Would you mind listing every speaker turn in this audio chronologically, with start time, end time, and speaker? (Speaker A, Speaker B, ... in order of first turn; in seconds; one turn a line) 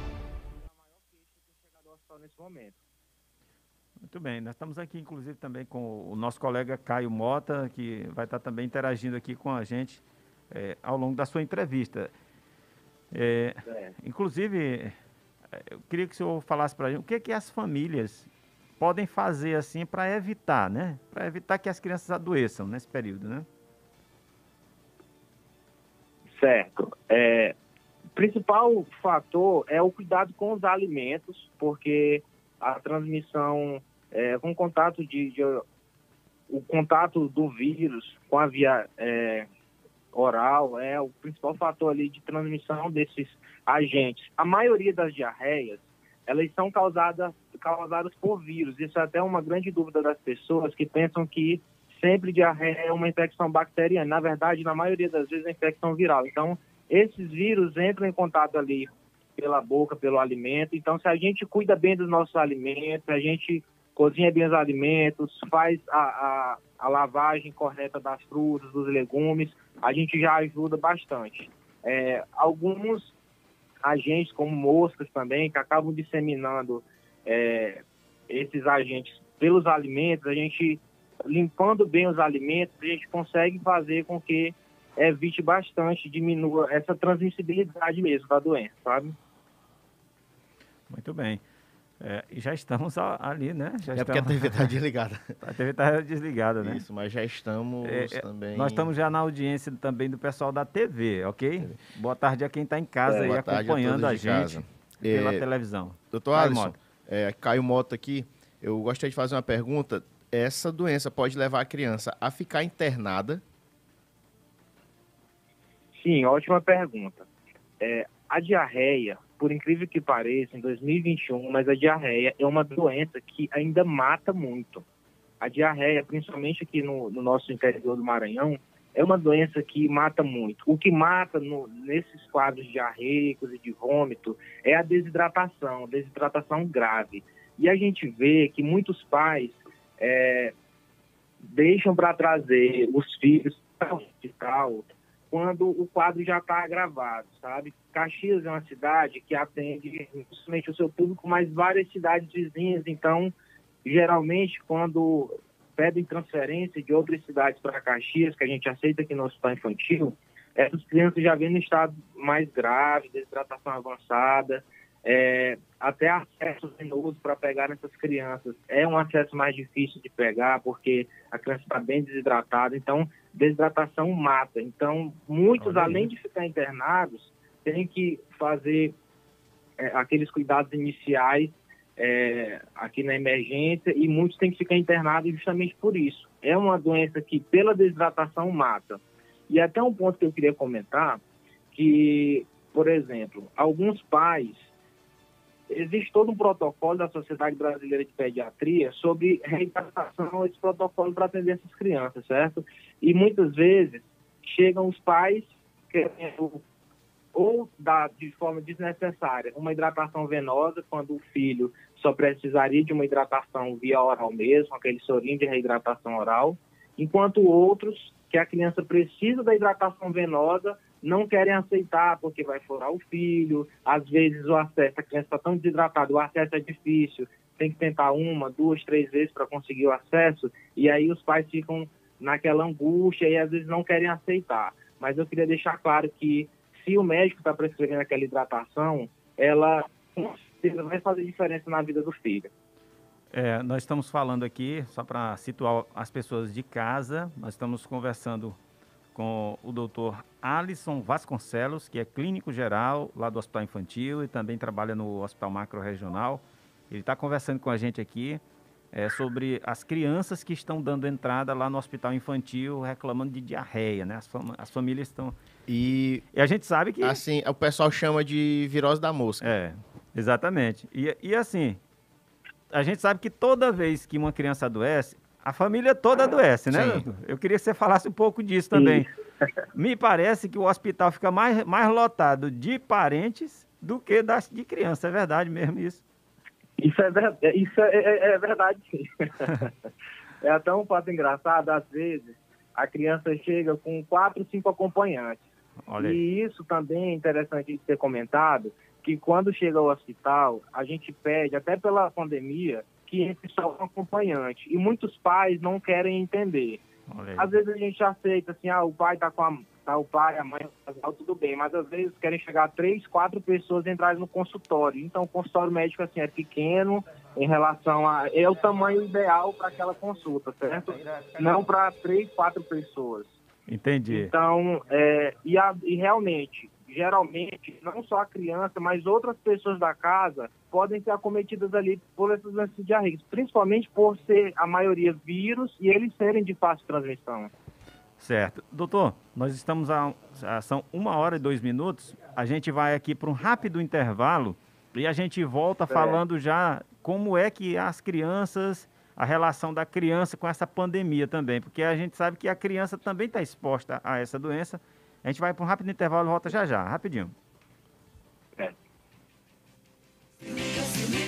Speaker A: 0.6-2.8
Speaker B: 4.0-12.1
Speaker B: 13.1-14.9
Speaker B: 15.5-18.3
Speaker B: 18.8-23.5
Speaker A: 26.4-27.5
Speaker A: 28.1-35.6
Speaker A: 36.5-39.5
Speaker A: 40.1-73.1
Speaker A: 73.8-89.2
Speaker B: 90.9-91.4
Speaker B: 92.0-94.7
Speaker C: 93.9-95.3
Speaker B: 95.4-96.8
Speaker C: 96.6-98.9
Speaker B: 97.8-106.7
Speaker C: 103.1-105.4
Speaker C: 106.1-113.4
Speaker A: 116.0-117.3
Speaker A: 117.8-124.8
Speaker A: 125.4-140.5
Speaker A: 141.4-153.3
Speaker A: 153.8-178.9
Speaker B: 175.6-176.1
Speaker A: 179.8-191.2
Speaker A: 191.7-194.7
Speaker A: 195.7-206.6
Speaker A: 207.3-242.5
Speaker B: 243.3-248.6
Speaker B: 249.1-265.3
Speaker C: 265.7-266.2
Speaker B: 266.3-267.2
Speaker C: 267.0-269.5
Speaker B: 269.4-271.8
Speaker B: 272.7-279.1
Speaker C: 276.7-277.0
Speaker A: 278.7-279.0
Speaker B: 279.7-286.0
Speaker A: 286.8-289.7
Speaker A: 290.4-295.4
Speaker B: 295.9-296.2
Speaker A: 296.0-306.8
Speaker B: 307.1-307.5
Speaker A: 307.4-323.4
Speaker B: 320.9-321.6
Speaker B: 323.7-324.3
Speaker A: 324.1-337.5
Speaker B: 338.2-357.3
Speaker A: 345.9-346.2